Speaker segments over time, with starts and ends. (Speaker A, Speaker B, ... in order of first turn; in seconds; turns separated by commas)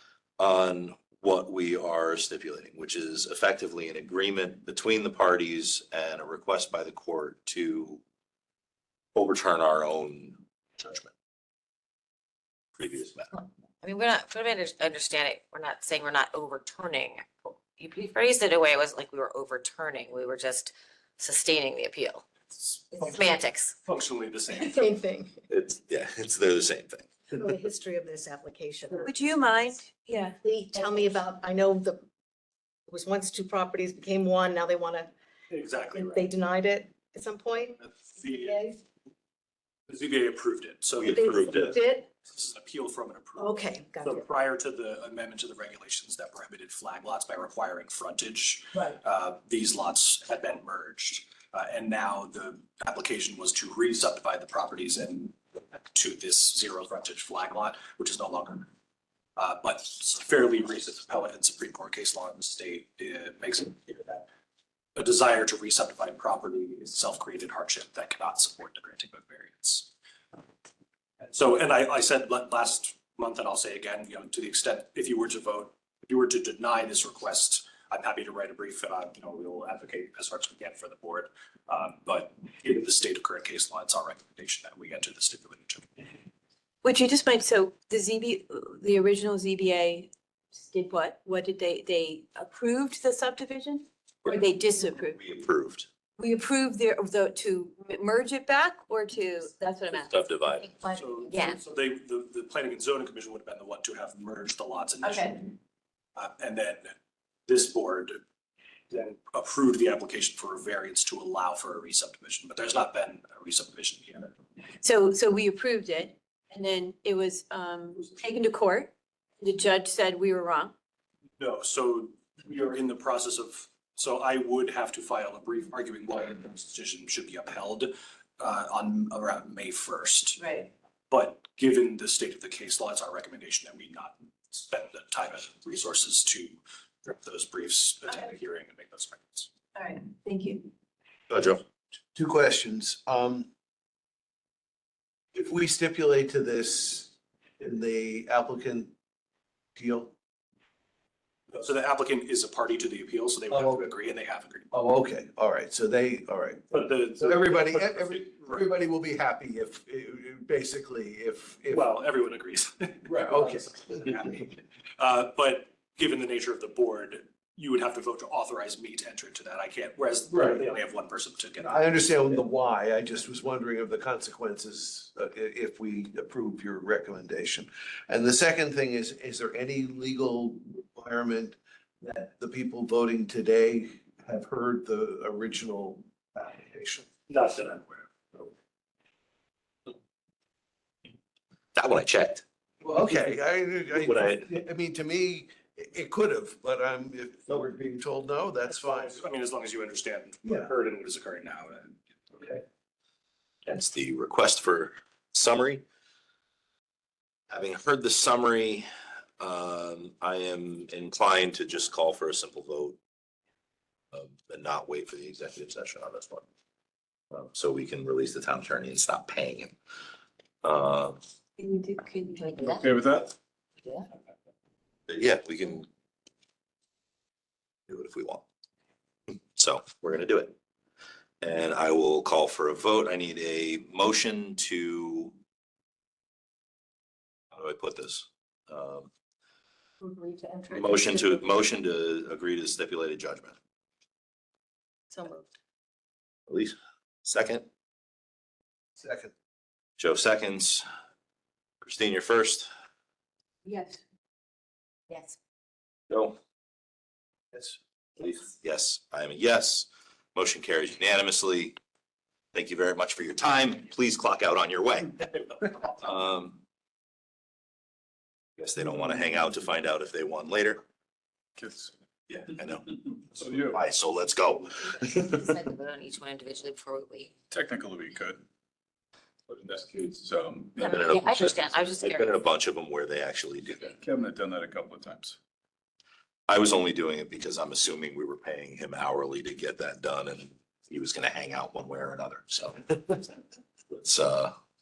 Speaker A: 0.4-8.0, Speaker A: 9.1-11.1, Speaker A: 12.8-13.3, Speaker B: 13.8-22.2, Speaker C: 22.5-23.2, Speaker B: 22.9-23.7, Speaker C: 23.8-24.9, Speaker D: 24.6-25.3, Speaker A: 25.5-27.1, Speaker D: 27.3-29.1, Speaker E: 29.0-30.4, Speaker D: 30.4-32.0, Speaker D: 32.9-35.1, Speaker C: 35.5-36.3, Speaker D: 35.9-38.8, Speaker C: 37.8-38.6, Speaker C: 39.9-58.7, Speaker A: 41.0-41.8, Speaker D: 41.1-42.1, Speaker D: 43.4-44.2, Speaker C: 59.4-64.3, Speaker C: 65.0-69.9, Speaker C: 71.2-86.0, Speaker E: 86.8-95.2, Speaker A: 95.0-95.9, Speaker E: 96.2-100.2, Speaker A: 99.9-100.7, Speaker C: 100.9-105.5, Speaker B: 101.3-101.6, Speaker E: 105.0-105.4, Speaker C: 106.2-106.9, Speaker C: 107.5-108.2, Speaker C: 108.9-114.3, Speaker E: 114.8-120.7, Speaker C: 121.4-130.5, Speaker E: 130.4-130.7, Speaker C: 131.1-139.5, Speaker E: 139.7-140.7, Speaker A: 141.3-141.6, Speaker F: 142.1-143.5, Speaker F: 145.3-148.9, Speaker F: 149.7-150.1, Speaker C: 151.5-154.7, Speaker F: 153.5-153.8, Speaker F: 154.7-161.9, Speaker C: 156.7-158.7, Speaker C: 161.7-172.4, Speaker F: 163.1-164.5, Speaker F: 171.6-187.1, Speaker C: 187.3-188.4, Speaker A: 191.7-192.4, Speaker F: 192.8-199.2, Speaker A: 193.9-194.4, Speaker C: 198.7-201.9, Speaker A: 203.7-205.8, Speaker A: 207.5-208.8, Speaker A: 209.4-213.0, Speaker A: 214.1-216.4, Speaker A: 217.3-219.7, Speaker A: 220.6-221.2, Speaker E: 221.6-222.8, Speaker B: 222.5-222.8, Speaker G: 222.8-223.2, Speaker A: 225.1-225.9, Speaker A: 227.9-228.4, Speaker A: 229.5-230.6, Speaker A: 231.4-235.3, Speaker A: 237.5-239.1, Speaker E: 240.0-241.4, Speaker A: 240.7-243.5, Speaker E: 245.1-245.4, Speaker A: 246.5-247.7, Speaker F: 249.0-249.3, Speaker A: 250.0-250.8, Speaker A: 251.8-252.7, Speaker E: 253.6-254.0, Speaker B: 255.1-255.3, Speaker A: 256.1-256.4, Speaker A: 258.2-261.8, Speaker A: 262.5-266.6, Speaker A: 268.6-270.8, Speaker G: 271.6-271.9, Speaker A: 272.3-274.9, Speaker G: 273.3-273.8, Speaker B: 274.9-277.3, Speaker G: 277.5-278.4, Speaker G: 279.5-281.0, Speaker B: 280.8-282.5, Speaker A: 280.9-284.0, Speaker G: 284.0-285.4, Speaker A: 286.5-293.2, Speaker A: 293.9-294.5